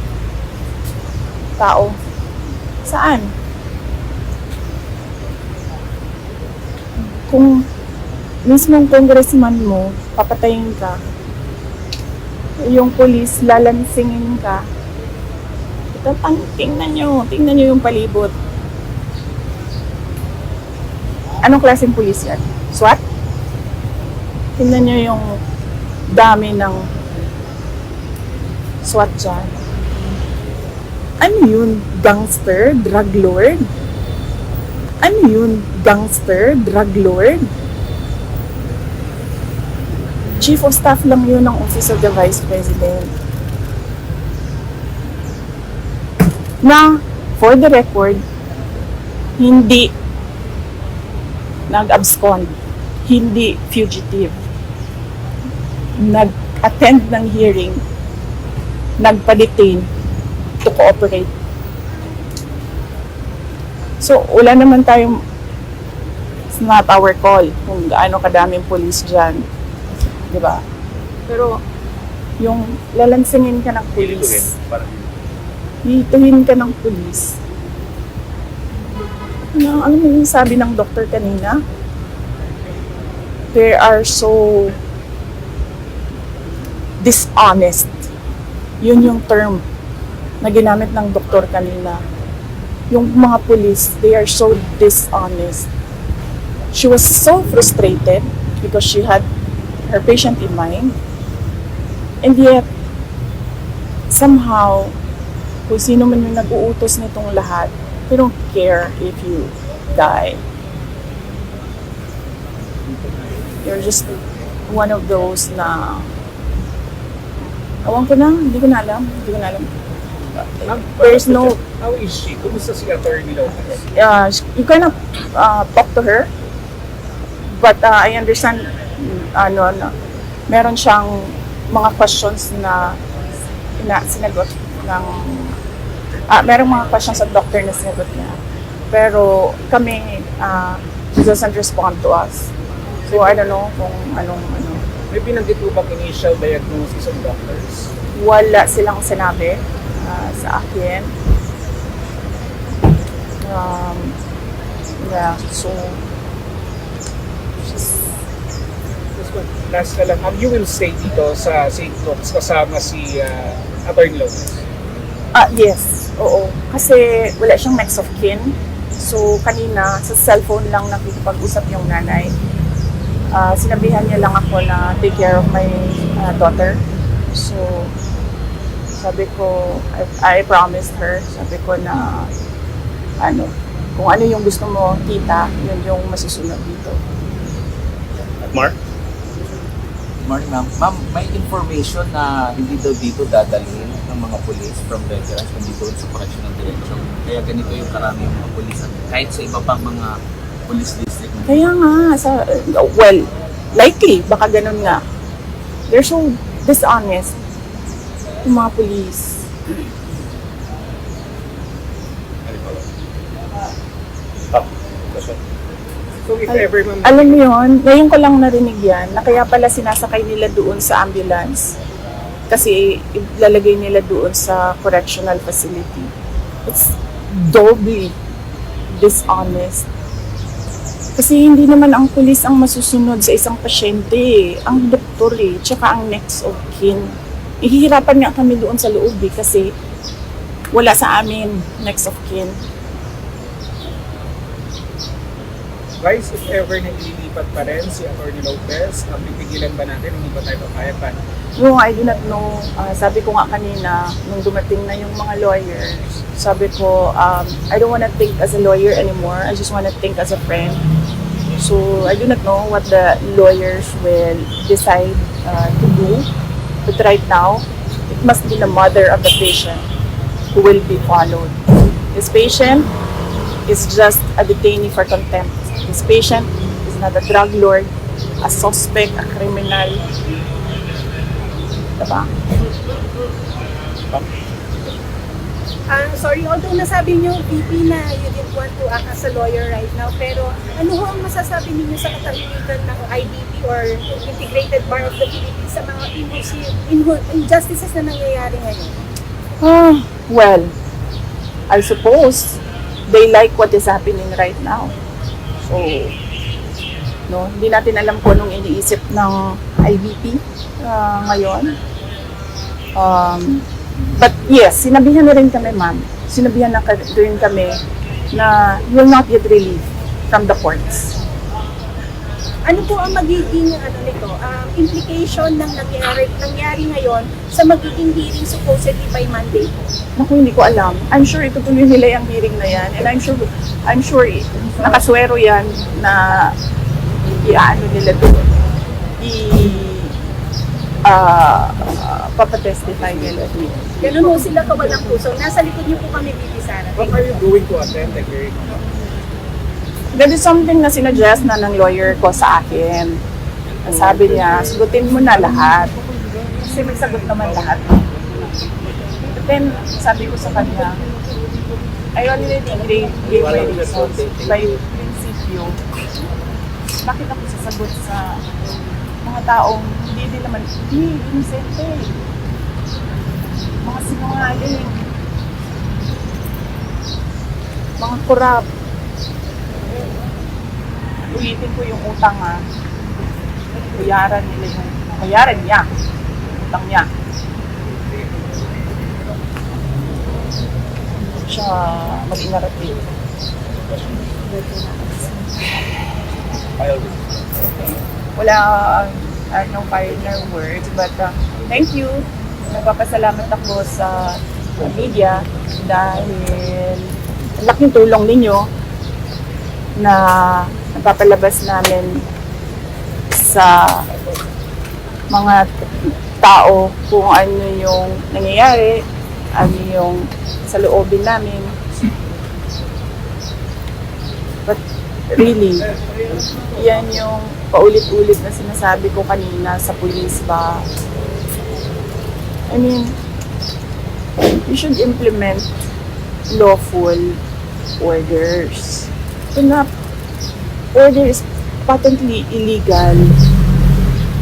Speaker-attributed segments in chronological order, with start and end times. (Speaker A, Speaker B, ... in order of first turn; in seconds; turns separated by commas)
Speaker A: 1.6-1.9, Speaker A: 2.9-3.3, Speaker A: 7.3-7.7, Speaker A: 8.5-11.0, Speaker A: 12.6-14.7, Speaker A: 15.9-18.3, Speaker A: 21.4-23.0, Speaker A: 24.6-25.4, Speaker A: 26.1-26.8, Speaker A: 28.8-29.6, Speaker A: 31.2-33.7, Speaker A: 35.0-37.5, Speaker A: 40.4-43.1, Speaker A: 46.6-48.2, Speaker A: 49.4-49.9, Speaker A: 51.7-52.5, Speaker A: 53.0-54.4, Speaker A: 56.0-57.8, Speaker A: 59.0-59.9, Speaker A: 60.6-61.3, Speaker A: 64.0-65.2, Speaker A: 66.5-69.4, Speaker A: 70.3-70.6, Speaker A: 71.3-71.6, Speaker A: 72.4-74.5, Speaker B: 74.0-75.1, Speaker A: 75.8-77.4, Speaker A: 79.5-81.6, Speaker A: 83.5-84.8, Speaker A: 87.0-88.1, Speaker A: 88.8-89.6, Speaker A: 90.4-92.0, Speaker A: 92.9-95.7, Speaker A: 96.7-99.2, Speaker A: 99.9-101.0, Speaker A: 102.2-102.7, Speaker A: 104.1-105.0, Speaker A: 105.7-110.4, Speaker A: 113.6-114.2, Speaker A: 114.7-116.1, Speaker A: 117.8-119.7, Speaker A: 120.4-121.6, Speaker C: 120.7-123.8, Speaker A: 123.9-126.3, Speaker A: 127.5-129.9, Speaker A: 130.5-133.0, Speaker A: 133.8-135.6, Speaker A: 136.3-138.4, Speaker A: 138.9-142.5, Speaker C: 143.1-143.5, Speaker A: 143.1-144.8, Speaker C: 145.1-147.9, Speaker A: 148.2-151.1, Speaker A: 153.4-154.2, Speaker A: 155.0-156.0, Speaker A: 157.6-158.1, Speaker C: 159.2-164.6, Speaker A: 165.3-172.3, Speaker A: 173.3-176.8, Speaker A: 177.3-177.9, Speaker A: 179.0-182.3, Speaker A: 183.2-187.0, Speaker B: 188.4-188.8, Speaker D: 190.2-200.1, Speaker D: 200.7-201.6, Speaker A: 201.5-205.0, Speaker A: 205.9-207.3, Speaker A: 208.4-209.4, Speaker B: 212.5-212.8, Speaker B: 214.5-215.4, Speaker C: 216.3-217.4, Speaker A: 216.5-221.7, Speaker A: 222.5-226.1, Speaker A: 226.7-228.1, Speaker A: 228.9-229.9, Speaker A: 231.2-239.7, Speaker A: 240.7-242.6, Speaker C: 246.0-251.2, Speaker A: 251.6-260.8, Speaker A: 261.6-266.3, Speaker A: 266.9-269.8, Speaker A: 270.5-271.6, Speaker A: 272.1-272.9, Speaker A: 273.7-280.0, Speaker A: 282.0-282.3, Speaker E: 285.9-299.0, Speaker A: 299.6-300.7, Speaker A: 301.7-304.9, Speaker A: 305.6-306.1, Speaker A: 307.3-311.8, Speaker A: 313.0-313.6, Speaker A: 314.2-317.8, Speaker A: 318.3-321.1, Speaker E: 322.7-329.7, Speaker A: 330.2-336.5, Speaker A: 337.4-338.4, Speaker A: 339.2-340.1, Speaker A: 341.1-344.4, Speaker E: 344.0-347.2, Speaker C: 347.0-348.8, Speaker A: 350.1-353.2, Speaker A: 353.9-356.0, Speaker A: 356.6-358.0, Speaker A: 359.3-361.0, Speaker A: 362.2-365.8, Speaker B: 363.3-364.5, Speaker D: 363.3-364.1, Speaker A: 367.0-368.4, Speaker A: 369.2-372.1, Speaker A: 373.8-375.0, Speaker A: 378.0-378.7, Speaker A: 381.3-382.6, Speaker A: 383.9-385.9, Speaker A: 386.6-387.1, Speaker A: 391.4-393.0, Speaker B: 393.9-394.3, Speaker E: 394.3-395.5, Speaker B: 396.8-397.4, Speaker A: 397.6-408.7, Speaker A: 410.0-412.2, Speaker A: 413.3-414.1, Speaker A: 415.3-421.8, Speaker A: 425.3-425.9, Speaker A: 426.7-430.8, Speaker A: 432.7-433.1, Speaker A: 434.4-435.7, Speaker A: 436.5-437.4, Speaker A: 438.0-439.9, Speaker A: 440.9-443.3